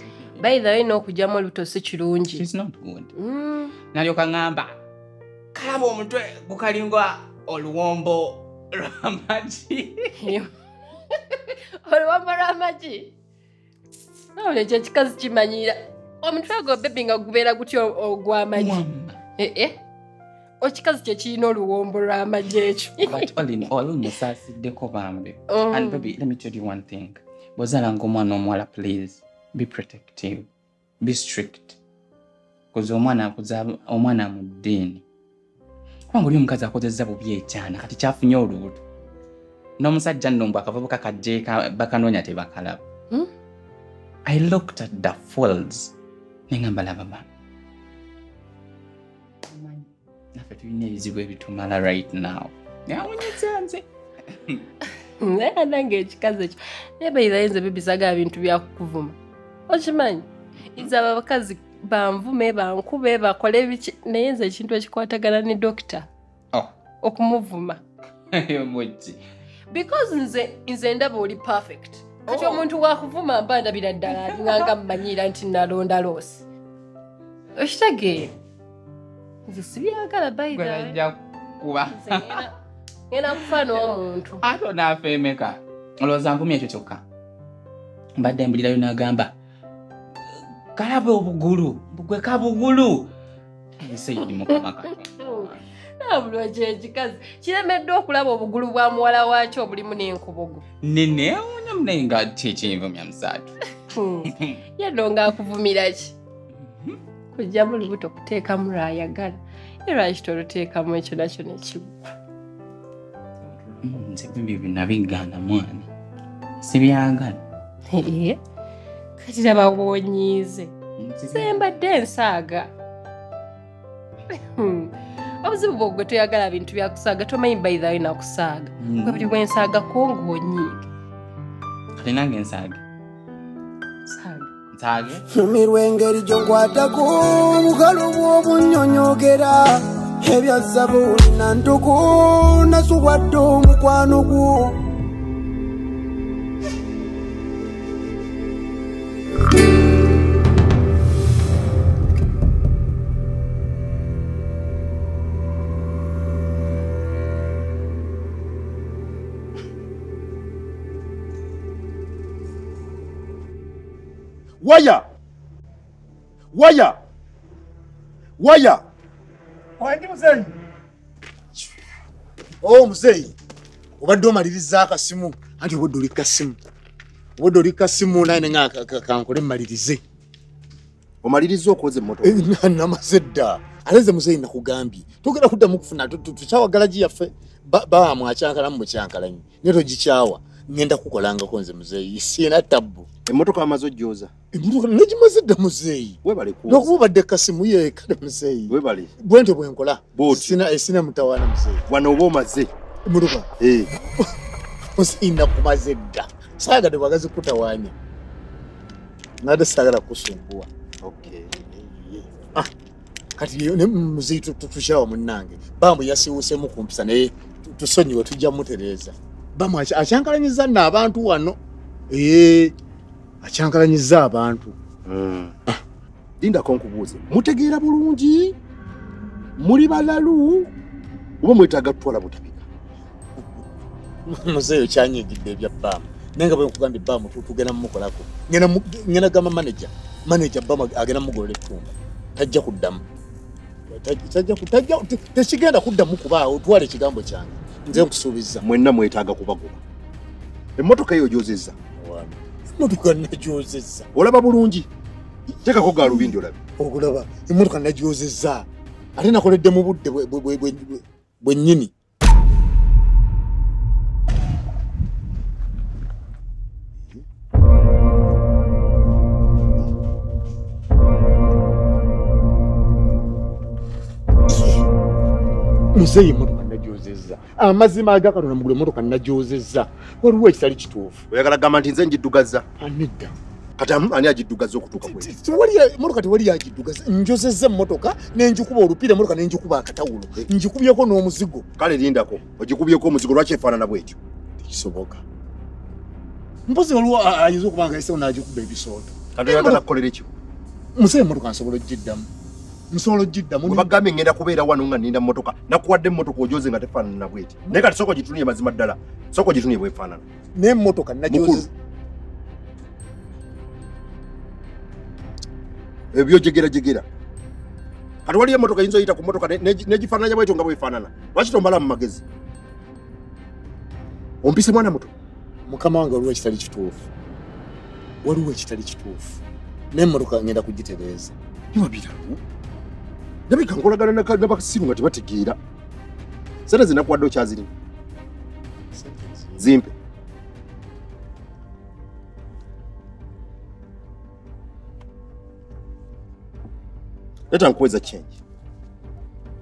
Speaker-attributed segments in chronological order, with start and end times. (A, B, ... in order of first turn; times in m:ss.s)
0:00.4-0:02.4 A
0:02.3-0:03.1 B
0:03.2-0:03.7 A
0:03.9-0:04.8 B
0:05.5-0:10.3 B
0:10.2-0:10.5 A
0:11.3-0:13.1 A
0:14.4-0:18.8 A
0:18.6-0:19.2 B
0:19.4-0:19.8 A
0:20.6-0:23.2 A
0:23.0-0:30.5 B
0:25.5-0:26.1 A
0:31.0-0:31.8 B
0:32.7-0:35.0 B
0:36.1-0:38.8 B
0:39.8-0:42.8 B
0:44.3-0:45.9 B
0:46.5-0:47.2 B
0:49.5-0:54.6 B
0:55.2-0:59.2 A
0:59.7-1:06.1 A
1:07.0-1:07.8 A
1:08.4-1:09.2 B
1:09.7-1:16.4 A
1:12.3-1:12.7 B
1:14.1-1:14.7 B
1:17.6-1:18.3 A
1:19.5-1:21.0 A
1:20.5-1:22.4 B
1:22.0-1:22.5 A
1:23.1-1:24.4 A
1:24.4-1:27.0 B
1:28.2-1:29.3 B
1:30.8-1:33.1 B
1:33.8-1:35.6 B
1:35.2-1:35.5 A
1:36.0-1:40.6 A
1:40.8-1:43.6 B
1:43.9-1:46.2 A
1:47.3-1:52.0 A
1:53.8-1:55.9 B
1:56.6-1:57.4 B
1:57.9-1:58.4 A
1:59.2-2:00.7 A
2:01.0-2:01.6 B
2:01.3-2:02.7 A
2:04.4-2:04.9 A
2:05.4-2:10.9 A
2:08.8-2:09.4 B
2:12.0-2:12.8 B
2:14.1-2:14.5 A
2:14.7-2:15.2 B
2:15.3-2:24.8 C
2:44.6-2:45.0 D
2:46.5-2:47.0 D
2:48.4-2:48.8 D
2:49.8-2:50.5 E
2:52.6-2:53.3 E
2:54.0-2:56.6 E
2:57.4-3:00.0 E
3:01.2-3:02.4 D
3:02.2-3:13.1 E
3:13.3-3:14.3 D
3:14.5-3:21.8 E
3:16.2-3:16.9 D
3:18.7-3:19.1 D
3:20.2-3:20.6 D
3:21.9-3:22.7 D
3:23.1-3:23.5 E
3:23.6-3:23.9 D
3:25.0-3:27.9 E
3:29.4-3:30.7 E
3:31.0-3:31.5 D
3:31.5-3:32.7 E
3:33.4-3:41.6 E
3:42.1-3:42.7 E
3:43.4-3:44.8 E
3:45.1-3:45.5 D
3:46.4-3:48.6 D
3:49.6-3:50.7 D
3:51.4-3:52.6 D
3:53.4-3:53.6 E
3:54.3-4:03.0 E
4:03.9-4:08.6 E
4:08.6-4:09.8 D
4:10.8-4:11.8 D
4:12.0-4:14.1 E
4:14.2-4:14.9 D
4:15.6-4:16.6 D
4:16.0-4:21.9 E
4:35.9-4:41.2 E
4:41.3-4:42.6 D
4:42.8-4:43.4 E
4:43.8-4:45.3 D
4:45.0-4:51.7 E
4:51.8-4:54.2 D
4:54.6-4:55.2 E
4:56.7-4:59.8 E
4:59.4-5:00.3 D
5:01.0-5:02.3 E
5:02.9-5:03.9 E
5:03.7-5:10.2 D
5:10.6-5:11.7 E
5:11.3-5:11.7 D
5:16.1-5:17.0 D
5:18.3-5:22.2 D
5:24.4-5:25.1 D
5:25.7-5:27.1 E
5:28.2-5:29.4 E
5:29.9-5:31.3 E
5:31.7-5:32.4 D
5:33.5-5:35.6 D
5:36.7-5:37.7 D
5:38.9-5:39.6 E
5:39.6-5:39.9 D
5:47.5-5:48.3 D